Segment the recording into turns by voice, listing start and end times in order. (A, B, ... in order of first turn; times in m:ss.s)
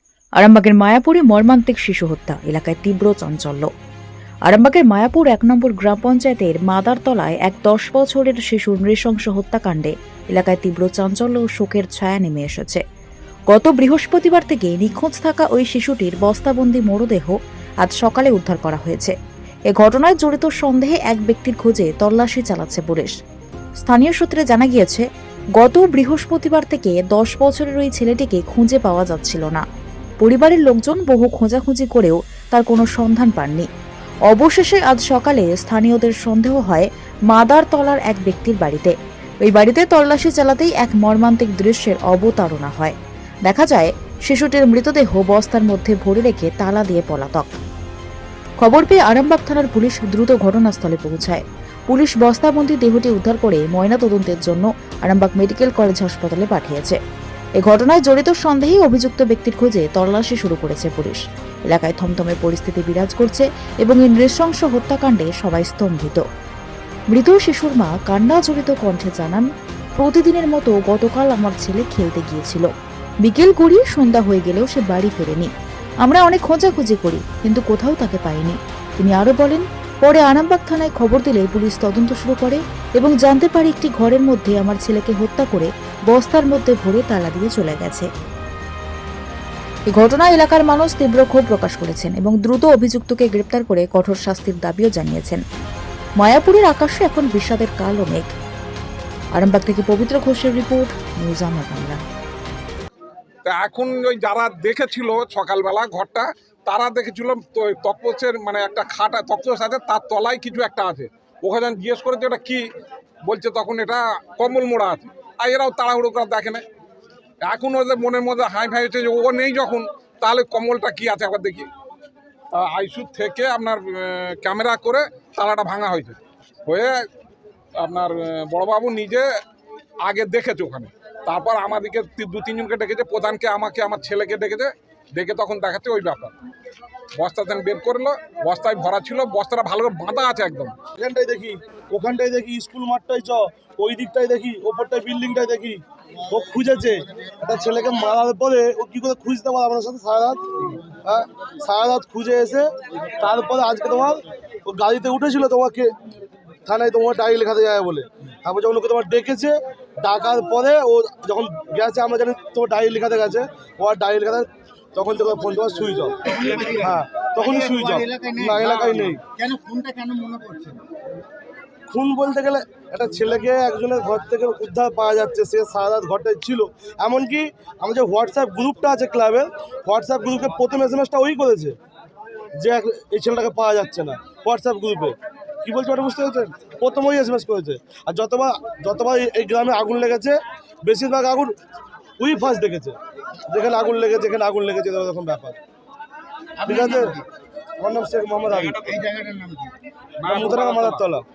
0:00.4-0:03.7 A
0:04.4-0:12.8 A
0:13.5-0:19.1 A
0:19.7-0:23.1 A
0:23.8-0:25.0 A
0:25.6-0:29.6 A
0:30.2-0:33.6 A
0:34.3-0:38.9 A
0:39.4-0:42.9 A
0:43.5-0:47.5 A
0:48.6-0:57.0 A
0:57.6-1:06.2 A
1:07.1-1:09.4 A
1:10.0-1:12.7 A
1:13.2-1:15.5 A
1:16.0-1:28.1 A
1:29.9-1:35.4 A
1:36.2-1:38.3 A
1:39.3-1:42.0 A
1:43.4-1:52.6 B
1:53.2-1:56.6 B
1:57.4-2:01.7 B
2:02.5-2:06.9 B
2:07.8-2:09.2 B
2:10.0-2:16.3 B
2:17.2-2:20.7 B
2:21.0-2:30.4 C
2:31.0-2:35.9 C
2:36.6-2:49.2 C
2:46.4-2:46.8 D
2:47.4-2:50.8 D
2:48.6-2:49.2 B
2:51.9-3:01.8 C
3:02.6-3:11.6 C
3:12.2-3:13.0 C
3:13.5-3:15.6 C
3:16.6-3:17.2 D
3:16.6-3:17.2 C
3:17.8-3:18.9 C
3:18.5-3:19.1 B
3:18.8-3:19.7 D
3:20.2-3:21.0 B
3:20.2-3:21.2 C